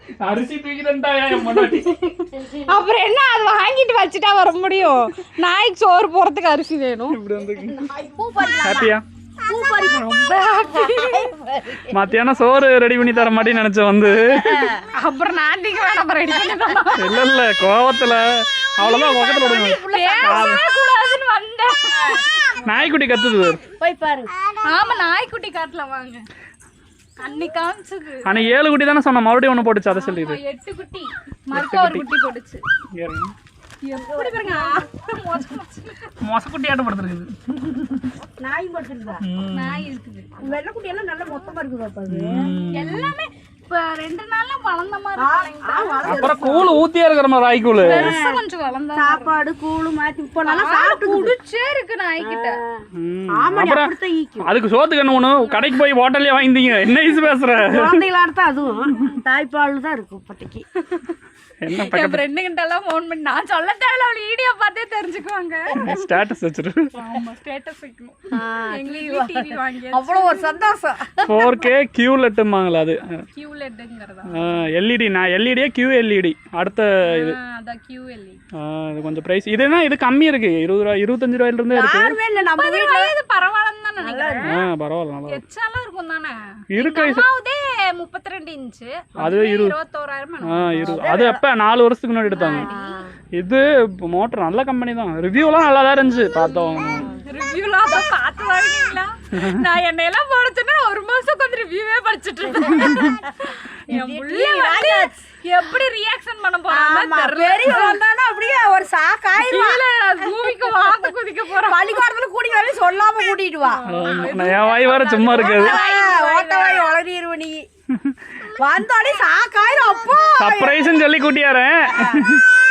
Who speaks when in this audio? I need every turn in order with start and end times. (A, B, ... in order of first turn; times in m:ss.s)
0:00.2-0:02.0 A
0:01.4-0:07.2 B
0:02.3-0:02.8 C
0:07.1-0:07.8 A
0:07.6-0:08.9 C
0:08.6-0:09.0 A
0:09.5-0:11.9 C
0:10.1-0:11.3 B
0:11.9-0:14.7 A
0:14.4-0:14.8 C
0:15.0-0:17.2 B
0:17.0-0:20.6 A
0:18.8-0:20.6 C
0:19.0-0:22.2 B
0:21.9-0:22.7 C
0:22.6-0:23.6 A
0:23.8-0:24.3 C
0:24.6-0:26.2 B
0:27.2-0:28.5 B
0:28.2-0:30.4 A
0:29.9-0:32.6 B
0:31.5-0:32.1 A
0:32.9-0:33.3 A
0:33.8-0:36.1 B
0:34.0-0:34.8 C
0:36.2-0:38.1 A
0:38.4-0:39.2 C
0:39.2-0:39.9 A
0:39.6-0:40.6 B
0:40.4-0:42.5 C
0:42.1-0:43.1 A
0:42.7-0:46.4 B
0:45.2-0:46.8 C
0:46.1-0:48.2 A
0:47.8-0:48.4 C
0:47.8-0:49.3 B
0:49.0-0:51.3 C
0:50.4-0:52.6 B
0:52.2-0:54.5 C
0:53.0-0:58.0 A
0:57.7-1:00.6 C
1:01.6-1:02.2 A
1:01.7-1:05.8 B
1:05.8-1:06.9 A
1:06.9-1:10.6 B
1:08.3-1:11.3 C
1:11.2-1:13.3 A
1:11.3-1:11.5 B
1:13.3-1:14.5 B
1:14.3-1:17.4 A
1:17.0-1:18.4 B
1:18.6-1:22.1 A
1:21.7-1:23.1 C
1:22.6-1:24.6 B
1:24.0-1:24.5 C
1:24.4-1:25.4 A
1:25.3-1:31.0 B
1:26.7-1:27.2 A
1:29.2-1:29.8 A
1:30.4-1:32.7 A
1:30.8-1:31.4 C
1:32.3-1:33.0 B
1:32.4-1:33.1 C
1:33.4-1:37.1 A
1:36.9-1:37.2 C
1:37.2-1:48.0 B
1:39.3-1:39.7 A
1:42.8-1:43.1 A
1:43.9-1:45.2 C
1:46.7-1:50.8 C
1:49.4-1:52.0 B
1:51.7-1:53.8 C
1:53.7-1:56.9 B
1:53.9-1:55.8 A
1:55.3-1:57.7 C
1:57.9-1:58.2 A
1:58.6-2:00.8 C
2:00.4-2:02.4 A
2:01.9-2:02.3 C